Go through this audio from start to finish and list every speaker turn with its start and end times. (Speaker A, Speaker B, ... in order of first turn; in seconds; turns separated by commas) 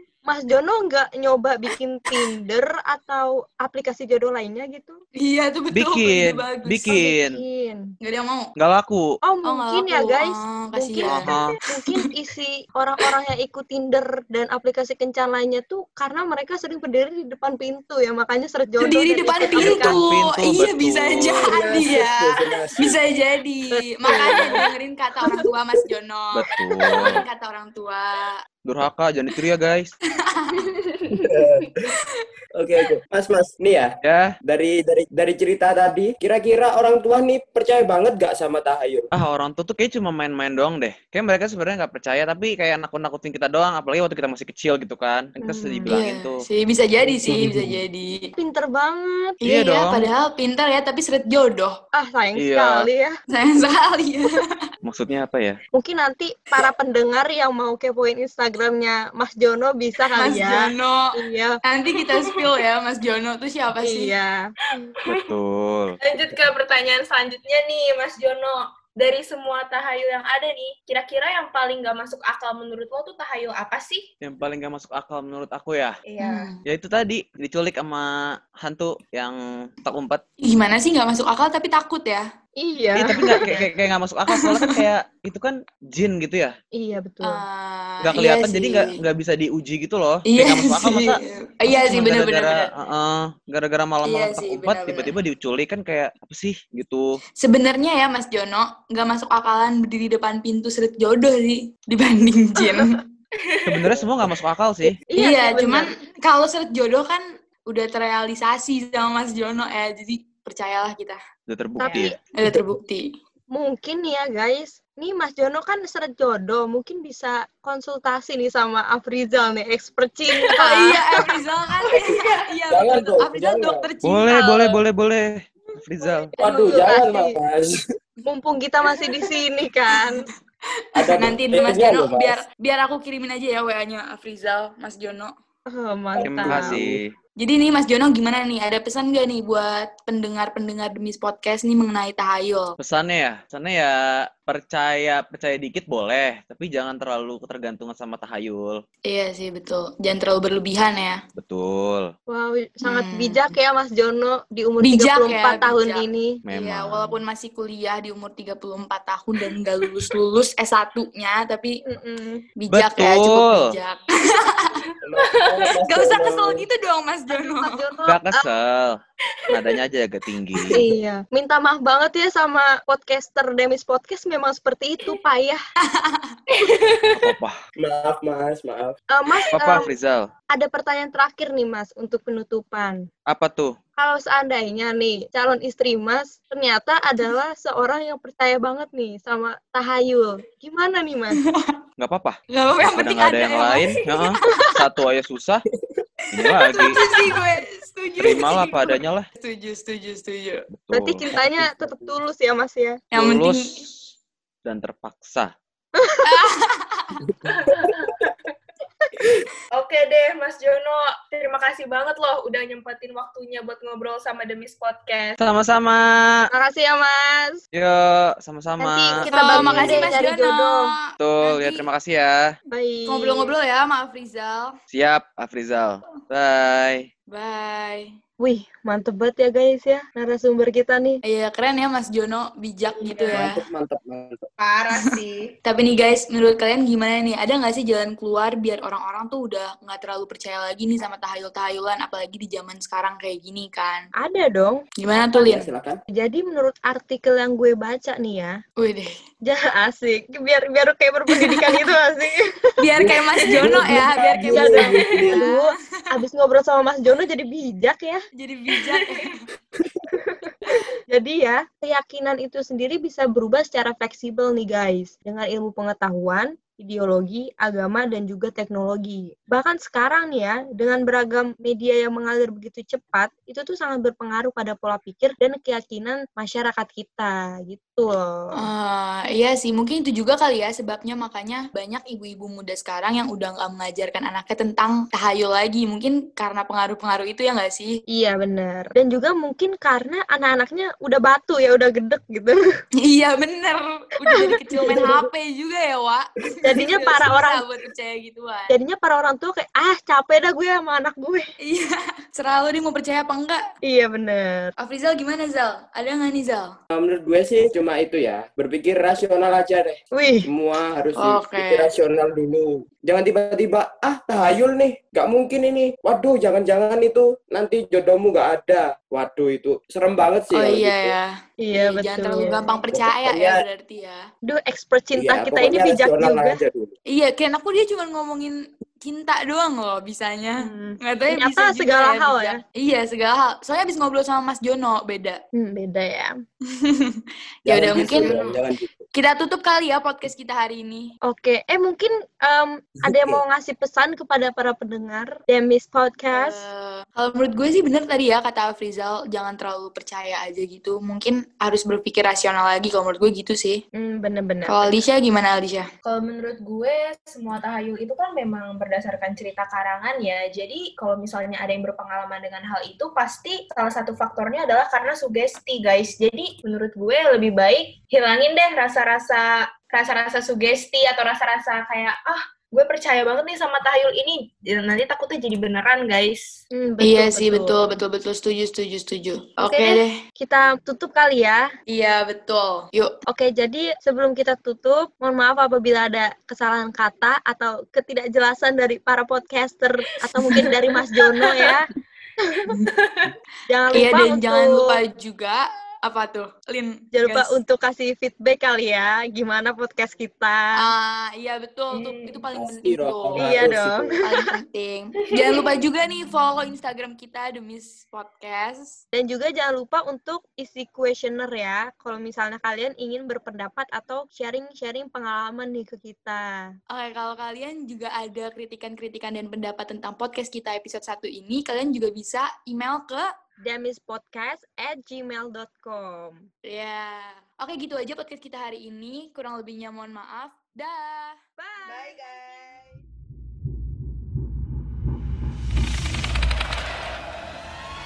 Speaker A: 0.3-5.0, Speaker B: 5.2-7.0, Speaker C: 5.7-7.4, Speaker A: 6.9-7.9, Speaker B: 8.0-8.5, Speaker C: 8.6-9.1, Speaker A: 9.2-20.0, Speaker B: 9.4-12.1, Speaker C: 11.1-11.6, Speaker B: 18.8-28.4, Speaker C: 19.6-21.5, Speaker D: 21.4-23.0, Speaker A: 23.7-24.6, Speaker C: 26.3-27.3, Speaker C: 28.6-29.9, Speaker B: 30.2-30.7, Speaker D: 31.1-31.7, Speaker D: 32.6-39.1, Speaker C: 34.0-34.4, Speaker C: 39.1-46.5, Speaker A: 45.4-45.9, Speaker B: 45.9-48.3, Speaker D: 47.1-47.8, Speaker A: 48.4-49.4, Speaker B: 49.4-51.8, Speaker C: 49.4-50.1, Speaker A: 52.0-53.2, Speaker C: 52.4-52.9, Speaker B: 53.3-54.5, Speaker C: 54.8-55.6, Speaker A: 55.8-61.6, Speaker B: 60.1-64.2, Speaker A: 63.8-64.5, Speaker E: 64.8-65.3, Speaker C: 65.1-66.0, Speaker E: 66.0-74.1, Speaker C: 74.2-76.0, Speaker E: 76.1-76.5, Speaker B: 76.2-76.6, Speaker C: 76.7-80.2, Speaker B: 80.4-82.3, Speaker A: 82.6-83.7, Speaker C: 83.0-86.5, Speaker B: 84.4-84.7, Speaker A: 86.8-87.4, Speaker B: 87.2-89.0, Speaker C: 88.0-97.2, Speaker B: 90.3-92.7, Speaker B: 94.0-95.2, Speaker B: 97.4-103.0, Speaker E: 103.4-103.9, Speaker C: 103.7-105.0, Speaker A: 105.1-105.9, Speaker B: 105.2-111.2, Speaker C: 111.5-112.2, Speaker A: 111.8-112.2, Speaker B: 112.3-113.2, Speaker A: 113.5-121.0, Speaker B: 120.5-124.8, Speaker E: 121.9-122.4, Speaker D: 122.7-123.9, Speaker C: 124.0-126.3, Speaker B: 126.0-126.9, Speaker A: 126.4-127.4, Speaker D: 126.4-127.8, Speaker A: 128.3-130.3, Speaker B: 130.9-135.3, Speaker D: 131.0-132.4, Speaker A: 135.7-136.8, Speaker C: 136.2-137.2, Speaker D: 136.2-137.0, Speaker B: 137.4-142.8, Speaker C: 142.8-148.8, Speaker B: 149.1-151.2, Speaker C: 151.4-152.1, Speaker A: 152.3-156.4, Speaker B: 152.8-153.4, Speaker B: 154.8-161.8, Speaker C: 156.5-157.2, Speaker A: 161.9-162.5, Speaker B: 162.6-164.9, Speaker C: 162.7-163.8, Speaker D: 165.0-166.7, Speaker E: 165.2-165.7, Speaker B: 165.8-167.9, Speaker A: 167.3-168.4, Speaker C: 168.1-169.0, Speaker E: 169.3-169.6, Speaker C: 169.5-170.8, Speaker A: 170.7-175.6, Speaker B: 175.8-176.4, Speaker E: 176.5-177.3, Speaker C: 177.2-177.6, Speaker D: 177.8-179.0, Speaker A: 179.1-179.9, Speaker C: 179.5-180.3, Speaker A: 180.5-183.1, Speaker C: 183.3-183.8, Speaker A: 184.0-191.4, Speaker B: 191.4-191.8, Speaker C: 192.0-195.6, Speaker B: 192.5-194.7, Speaker D: 195.7-196.0, Speaker C: 196.3-197.0, Speaker B: 196.4-200.7, Speaker C: 198.2-199.3, Speaker C: 200.7-201.4, Speaker A: 200.9-203.0, Speaker D: 201.3-202.2, Speaker B: 203.1-203.9, Speaker C: 203.1-204.1, Speaker C: 204.7-205.5, Speaker A: 206.0-206.4, Speaker B: 206.2-207.2, Speaker D: 207.3-208.0, Speaker E: 207.4-208.5, Speaker E: 209.7-215.4, Speaker C: 215.4-216.5, Speaker A: 216.5-217.6, Speaker C: 217.7-220.0, Speaker A: 218.8-220.9, Speaker B: 219.3-221.9, Speaker C: 221.2-222.5, Speaker A: 222.7-223.5, Speaker B: 223.1-224.8, Speaker C: 224.9-227.1, Speaker B: 227.3-228.1, Speaker A: 228.4-231.2, Speaker B: 231.2-233.6, Speaker E: 233.0-233.5, Speaker D: 233.3-234.5, Speaker E: 234.6-235.5, Speaker B: 235.7-244.1, Speaker A: 244.2-244.8, Speaker B: 245.0-245.7, Speaker D: 245.3-246.0, Speaker A: 246.1-248.6, Speaker B: 248.8-249.1, Speaker A: 249.4-252.7, Speaker B: 251.3-251.8, Speaker B: 252.8-255.7, Speaker D: 253.0-255.4, Speaker A: 253.5-258.2, Speaker B: 258.4-259.4, Speaker E: 260.4-260.7, Speaker A: 261.1-278.6, Speaker B: 278.6-288.0, Speaker A: 288.1-292.6, Speaker B: 293.0-298.8, Speaker A: 294.3-295.3, Speaker A: 296.6-297.6, Speaker A: 298.7-301.5, Speaker B: 301.6-303.6, Speaker A: 303.8-304.7, Speaker B: 304.8-306.7, Speaker D: 306.9-321.1, Speaker A: 310.1-310.5, Speaker B: 311.2-311.9, Speaker B: 320.5-324.3, Speaker A: 321.6-322.7, Speaker D: 322.9-323.6, Speaker A: 324.5-326.6, Speaker D: 325.2-326.9, Speaker B: 327.1-335.4, Speaker A: 330.6-332.6, Speaker A: 335.6-336.4, Speaker B: 336.7-338.5, Speaker D: 337.7-339.0, Speaker A: 337.9-338.4, Speaker B: 339.1-341.1, Speaker A: 341.2-346.7, Speaker D: 343.0-343.4, Speaker B: 346.3-353.8, Speaker A: 354.0-355.0, Speaker B: 354.7-355.9, Speaker E: 356.1-376.6, Speaker A: 376.7-378.0, Speaker B: 377.0-380.1, Speaker E: 379.6-380.0, Speaker A: 380.4-381.6, Speaker B: 381.9-383.1, Speaker A: 383.3-391.9, Speaker E: 391.4-391.7, Speaker A: 392.4-392.7, Speaker E: 392.9-393.3, Speaker A: 393.7-395.0, Speaker B: 393.9-397.6, Speaker A: 397.1-400.9, Speaker B: 400.8-403.7, Speaker E: 401.9-402.4, Speaker D: 402.5-404.2, Speaker A: 403.4-404.5, Speaker B: 404.2-409.0, Speaker A: 409.1-416.6, Speaker B: 416.9-423.3, Speaker A: 423.6-426.4, Speaker B: 426.7-431.4, Speaker A: 431.6-432.9, Speaker E: 431.9-433.0